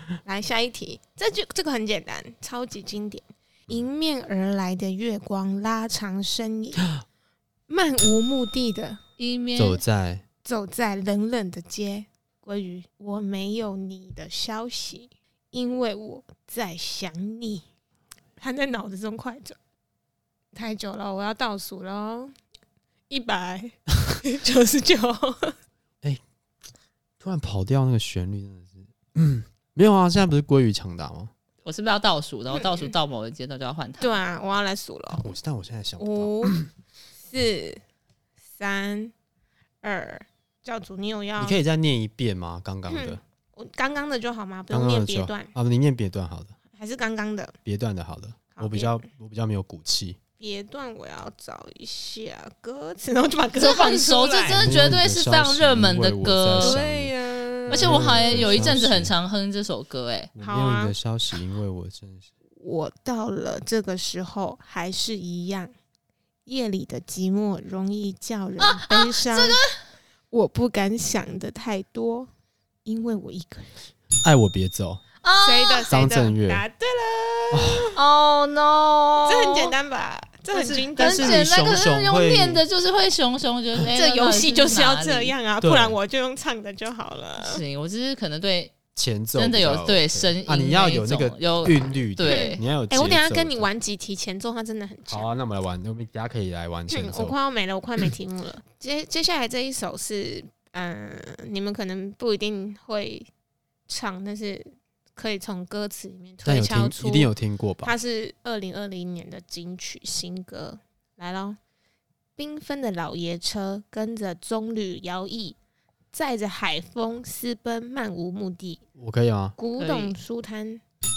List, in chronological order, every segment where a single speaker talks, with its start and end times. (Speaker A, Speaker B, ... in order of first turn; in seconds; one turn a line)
Speaker A: 0.2-6.9
Speaker A: 7.7-9.0
Speaker B: 9.2-9.8
Speaker C: 9.6-10.2
Speaker A: 10.4-17.6
Speaker A: 18.4-19.6
Speaker A: 20.5-22.3
Speaker A: 23.1-25.6
Speaker C: 27.2-31.3
Speaker B: 31.6-34.2
Speaker A: 32.5-32.9
Speaker A: 34.0-35.3
Speaker C: 35.1-36.7
Speaker A: 36.0-36.6
Speaker A: 37.2-37.8
Speaker A: 38.5-39.1
Speaker A: 39.8-41.6
Speaker C: 41.4-43.2
Speaker A: 42.9-45.5
Speaker C: 44.7-46.5
Speaker A: 46.7-47.6
Speaker C: 47.6-50.2
Speaker A: 48.6-49.0
Speaker A: 50.4-54.7
Speaker B: 53.6-56.8
Speaker C: 54.5-57.1
Speaker A: 56.6-58.9
Speaker C: 57.7-59.1
Speaker B: 57.7-60.3
Speaker C: 60.4-62.3
Speaker A: 60.4-60.9
Speaker A: 62.6-65.7
Speaker A: 66.5-69.6
Speaker B: 68.6-69.8
Speaker A: 70.3-72.3
Speaker A: 72.8-73.7
Speaker C: 74.2-75.0
Speaker B: 75.2-75.9
Speaker A: 75.4-78.0
Speaker C: 75.9-76.6
Speaker C: 77.5-78.0
Speaker B: 78.0-79.8
Speaker A: 79.2-81.4
Speaker B: 80.5-85.4
Speaker C: 81.0-82.6
Speaker A: 83.8-87.6
Speaker C: 85.6-86.0
Speaker B: 87.4-88.8
Speaker C: 89.0-93.7
Speaker B: 89.3-92.6
Speaker A: 92.2-95.3
Speaker C: 95.1-97.3
Speaker A: 96.9-103.3
Speaker A: 103.9-107.3
Speaker C: 106.4-107.9
Speaker A: 107.8-111.6
Speaker A: 112.4-115.6
Speaker A: 116.1-118.8
Speaker C: 119.0-119.6
Speaker A: 119.6-120.8
Speaker B: 119.8-120.1